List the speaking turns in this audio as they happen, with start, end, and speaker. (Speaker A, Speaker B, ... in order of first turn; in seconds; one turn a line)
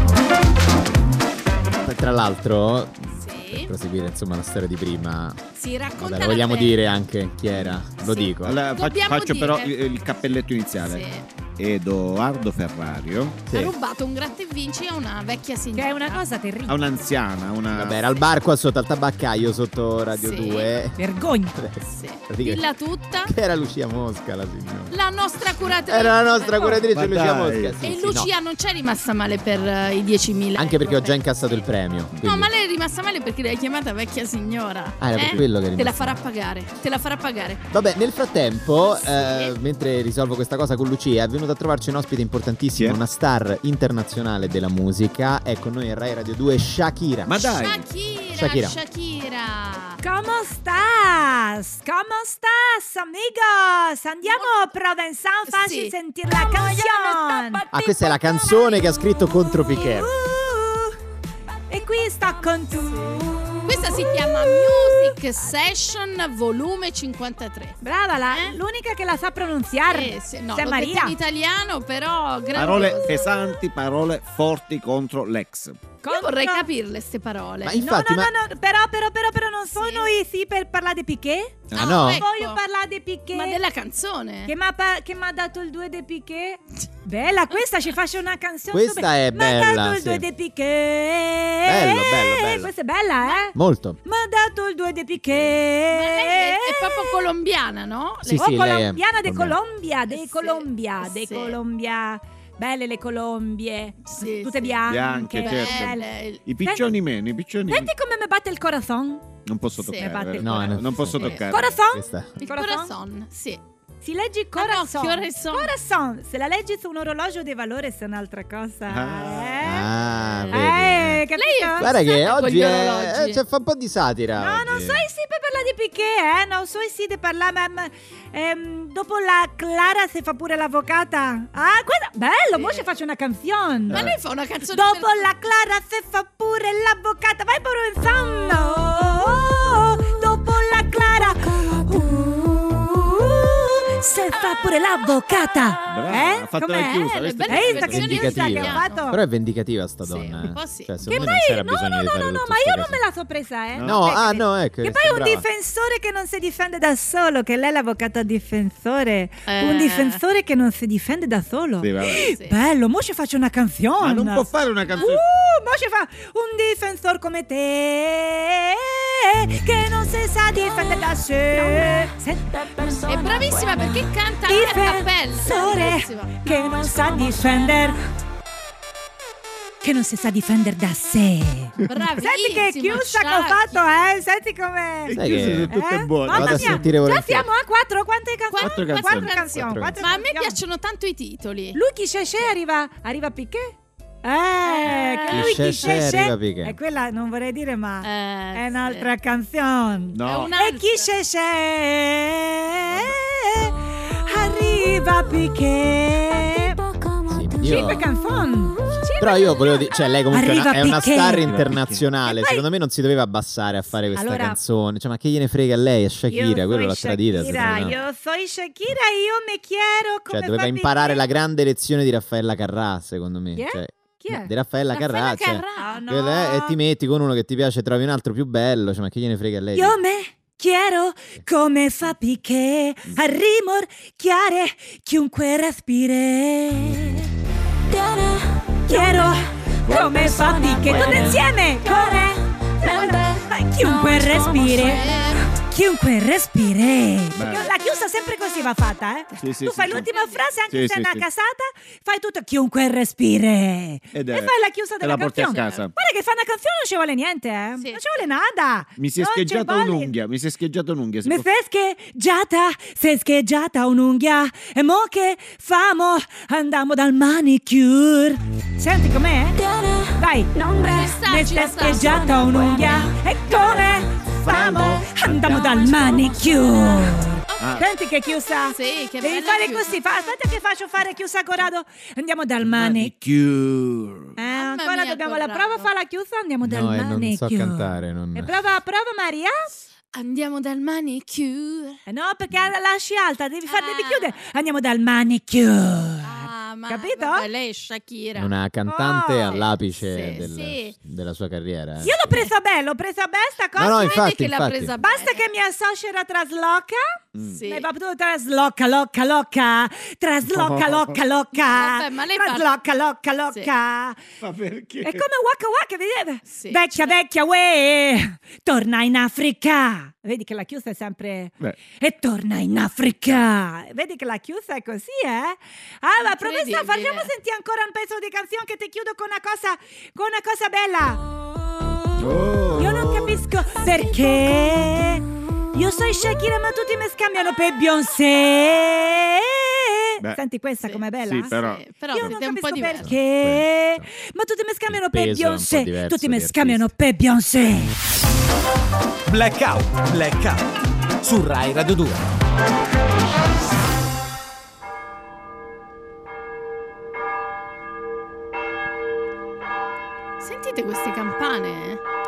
Speaker A: 1.8-5.4
Speaker B: 3.2-3.7
Speaker B: 5.5-6.8
Speaker A: 6.0-8.6
Speaker B: 7.5-11.2
Speaker C: 8.4-13.4
Speaker B: 13.5-16.2
Speaker D: 15.7-16.8
Speaker C: 16.7-18.0
Speaker A: 17.7-21.0
Speaker B: 20.1-20.7
Speaker D: 20.9-21.6
Speaker A: 21.5-22.6
Speaker B: 21.8-23.3
Speaker A: 23.2-24.9
Speaker B: 24.9-26.9
Speaker A: 25.9-28.3
Speaker C: 26.9-27.8
Speaker B: 27.8-31.4
Speaker A: 30.5-32.5
Speaker B: 32.2-37.6
Speaker A: 35.0-36.2
Speaker C: 35.2-35.4
Speaker A: 37.7-47.4
Speaker B: 39.0-39.5
Speaker C: 42.7-43.0
Speaker C: 47.2-47.8
Speaker B: 47.4-50.0
Speaker A: 48.3-48.8
Speaker D: 50.0-57.6
Speaker B: 54.2-54.7
Speaker B: 55.5-55.9
Speaker B: 56.5-58.7
Speaker A: 57.7-60.1
Speaker D: 59.7-61.0
Speaker D: 61.7-65.2
Speaker B: 62.9-67.8
Speaker D: 67.8-71.2
Speaker B: 68.3-68.6
Speaker B: 69.9-73.4
Speaker C: 72.5-75.8
Speaker D: 76.0-76.7
Speaker B: 76.0-77.8
Speaker A: 77.6-78.3
Speaker D: 77.8-83.6
Speaker B: 79.7-80.1
Speaker B: 81.7-82.6
Speaker A: 81.8-82.2
Speaker B: 83.3-84.5
Speaker D: 84.5-97.2
Speaker A: 88.7-90.2
Speaker A: 91.6-92.7
Speaker A: 93.5-94.0
Speaker B: 95.9-98.5
Speaker A: 98.2-99.6
Speaker D: 98.4-106.8
Speaker B: 100.1-101.6
Speaker B: 104.0-106.4
Speaker C: 104.8-107.9
Speaker D: 107.7-109.2
Speaker C: 109.5-111.7
Speaker B: 109.8-110.1
Speaker D: 110.0-112.9
Speaker A: 110.4-112.4
Speaker B: 112.4-113.6
Speaker D: 114.0-119.9
Speaker B: 114.5-115.7
Speaker C: 118.8-119.6
Speaker A: 119.6-121.2
Speaker B: 120.3-120.6
Speaker D: 120.5-121.9
Speaker B: 121.3-123.4
Speaker A: 121.8-125.0
Speaker D: 124.4-134.1
Speaker B: 132.5-132.8
Speaker B: 133.9-135.3
Speaker C: 133.9-134.2
Speaker D: 134.7-149.2
Speaker C: 145.9-148.0
Speaker B: 147.0-149.1
Speaker A: 147.9-153.0
Speaker B: 150.0-150.9
Speaker D: 151.0-178.0
Speaker C: 153.7-154.0
Speaker A: 153.8-155.4
Speaker B: 159.5-160.2
Speaker C: 161.8-162.2
Speaker B: 162.1-162.6
Speaker C: 164.0-165.2
Speaker B: 173.1-176.4
Speaker D: 179.8-190.6
Speaker B: 181.9-183.8
Speaker C: 185.1-186.9
Speaker A: 185.1-185.7
Speaker A: 186.3-187.5
Speaker B: 188.5-191.8
Speaker C: 188.6-189.3
Speaker A: 189.5-190.1
Speaker D: 191.7-206.8
Speaker B: 194.6-196.0
Speaker A: 195.3-196.8
Speaker B: 198.0-199.1
Speaker C: 200.1-200.5
Speaker B: 200.2-201.1
Speaker C: 202.9-203.2
Speaker A: 207.3-208.0
Speaker D: 207.6-211.5
Speaker A: 209.2-218.0
Speaker C: 211.4-212.0
Speaker D: 212.2-212.6
Speaker D: 214.1-214.6
Speaker D: 216.3-221.2
Speaker A: 220.3-230.0
Speaker D: 223.5-224.5
Speaker B: 224.9-226.0
Speaker D: 225.8-226.8
Speaker D: 229.7-237.3
Speaker D: 238.8-260.1
Speaker C: 239.8-241.4
Speaker A: 240.9-241.4
Speaker B: 244.6-245.5
Speaker C: 247.3-247.7
Speaker C: 249.4-250.1
Speaker B: 249.9-250.4
Speaker C: 250.7-251.2
Speaker C: 254.1-255.9
Speaker B: 255.4-255.9
Speaker B: 257.8-258.0
Speaker C: 259.0-261.5
Speaker D: 261.2-283.1
Speaker B: 270.8-273.0
Speaker C: 273.5-276.3
Speaker B: 273.5-273.8
Speaker B: 277.5-277.9
Speaker C: 277.6-277.9
Speaker B: 278.7-280.2
Speaker C: 282.6-284.4
Speaker D: 284.4-289.7
Speaker B: 284.5-285.9
Speaker A: 286.6-288.6
Speaker B: 290.1-292.0
Speaker D: 292.1-297.5
Speaker B: 293.7-294.4
Speaker B: 296.2-298.5
Speaker A: 298.4-302.3
Speaker D: 298.9-299.6
Speaker B: 299.4-300.9
Speaker D: 302.0-304.2
Speaker A: 303.8-304.9
Speaker B: 303.9-305.5
Speaker D: 305.0-314.2
Speaker C: 307.3-307.6
Speaker B: 307.4-307.9
Speaker C: 310.4-311.2
Speaker B: 311.6-312.7
Speaker C: 314.4-315.2
Speaker D: 315.0-341.5
Speaker B: 316.5-317.2
Speaker B: 326.2-327.3
Speaker C: 332.2-333.4
Speaker B: 340.9-343.1
Speaker C: 341.2-342.3
Speaker D: 342.1-347.9
Speaker A: 343.0-344.1
Speaker A: 344.9-346.9
Speaker E: 349.2-350.7
Speaker E: 351.2-352.3
Speaker B: 360.4-362.0